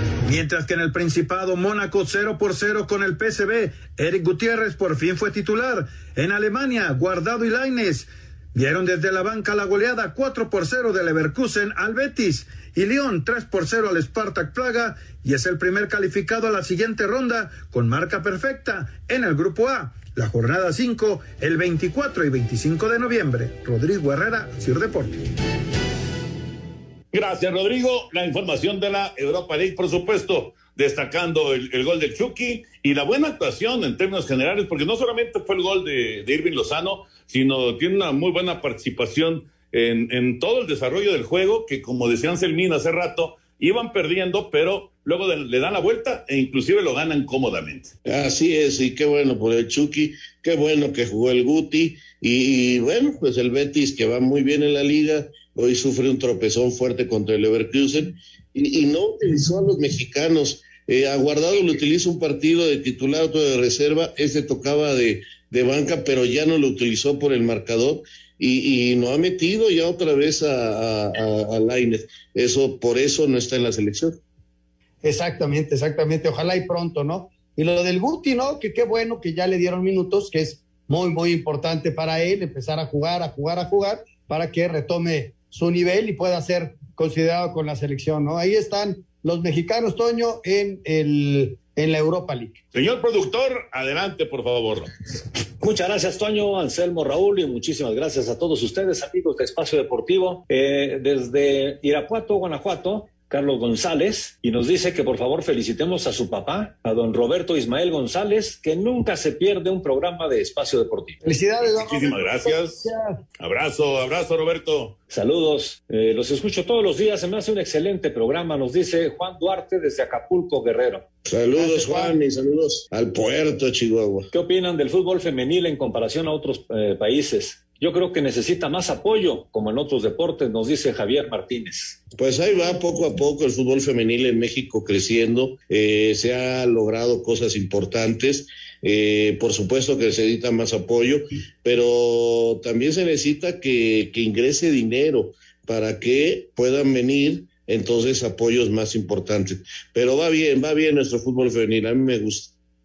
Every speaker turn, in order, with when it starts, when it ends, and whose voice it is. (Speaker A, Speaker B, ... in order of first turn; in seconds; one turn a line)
Speaker A: 0.2-25.2
Speaker B: 27.1-47.9
Speaker C: 48.0-74.1
Speaker D: 75.0-92.6
Speaker B: 92.7-94.9
Speaker E: 95.6-111.2
Speaker D: 111.2-113.2
Speaker B: 111.6-112.8
Speaker B: 113.4-114.9
Speaker E: 115.1-121.0
Speaker C: 121.2-124.3
Speaker D: 121.6-122.1
Speaker E: 124.3-132.0
Speaker C: 132.2-152.5